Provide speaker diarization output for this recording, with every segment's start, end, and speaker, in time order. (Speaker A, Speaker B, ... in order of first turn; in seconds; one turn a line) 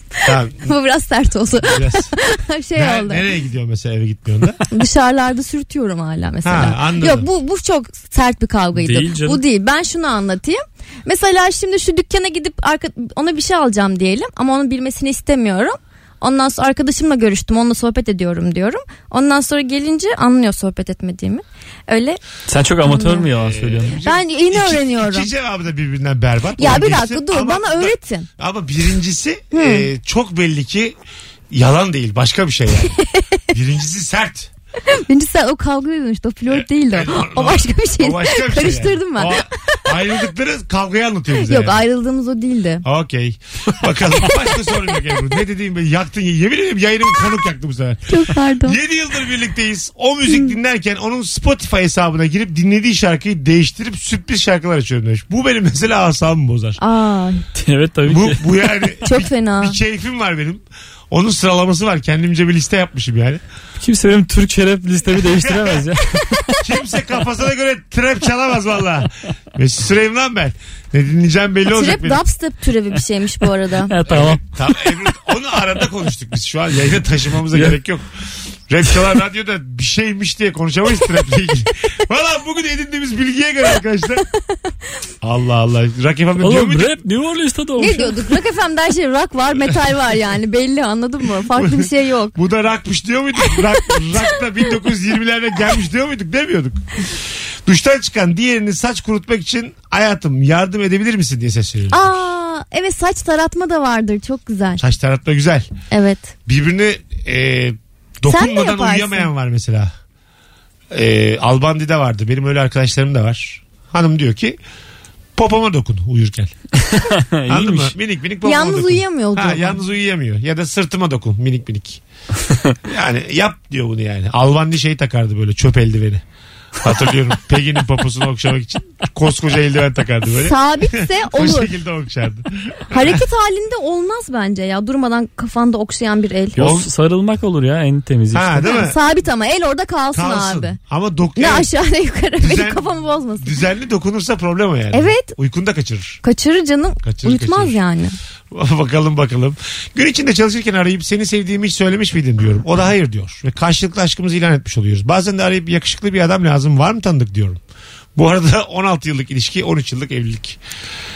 Speaker A: 0.2-3.2
Speaker B: 0.2-0.7
Speaker B: 1.6-2.1
Speaker B: 2.8-4.6
Speaker A: 4.7-22.2
Speaker B: 6.4-7.3
Speaker C: 8.8-9.4
Speaker C: 22.5-23.9
Speaker A: 22.8-23.3
Speaker B: 23.3-30.9
Speaker A: 24.0-25.3
Speaker A: 26.6-28.3
Speaker A: 29.5-29.9
Speaker B: 31.5-33.0
Speaker B: 33.5-34.5
Speaker A: 34.9-39.4
Speaker B: 36.5-41.8
Speaker A: 41.4-42.9
Speaker B: 42.8-56.8
Speaker A: 48.1-48.8
Speaker A: 56.8-57.5
Speaker C: 57.5-58.5
Speaker B: 58.1-63.4
Speaker A: 59.0-59.8
Speaker C: 63.8-66.6
Speaker B: 65.2-65.8
Speaker B: 66.6-72.2
Speaker A: 71.7-73.9
Speaker C: 73.9-74.4
Speaker B: 74.1-78.1
Speaker B: 78.7-84.2
Speaker B: 85.2-87.0
Speaker C: 86.4-88.3
Speaker A: 87.8-92.4
Speaker B: 91.5-102.3
Speaker A: 101.9-104.8
Speaker B: 104.8-105.7
Speaker A: 105.9-106.3
Speaker B: 106.5-109.9
Speaker A: 108.3-109.3
Speaker B: 110.9-114.6
Speaker B: 115.3-116.5
Speaker C: 116.8-117.9
Speaker B: 117.5-122.0
Speaker A: 118.4-119.8
Speaker B: 122.8-126.2
Speaker B: 126.8-133.2
Speaker A: 130.5-131.7
Speaker A: 132.9-136.6
Speaker C: 136.6-138.8
Speaker B: 136.6-136.9
Speaker B: 138.3-139.0
Speaker A: 138.6-140.8
Speaker B: 140.1-141.7
Speaker A: 141.4-143.6
Speaker B: 142.4-142.8
Speaker B: 143.4-146.2
Speaker A: 144.9-145.3
Speaker A: 146.2-148.2
Speaker B: 147.0-147.8
Speaker B: 148.5-157.6
Speaker B: 158.2-160.6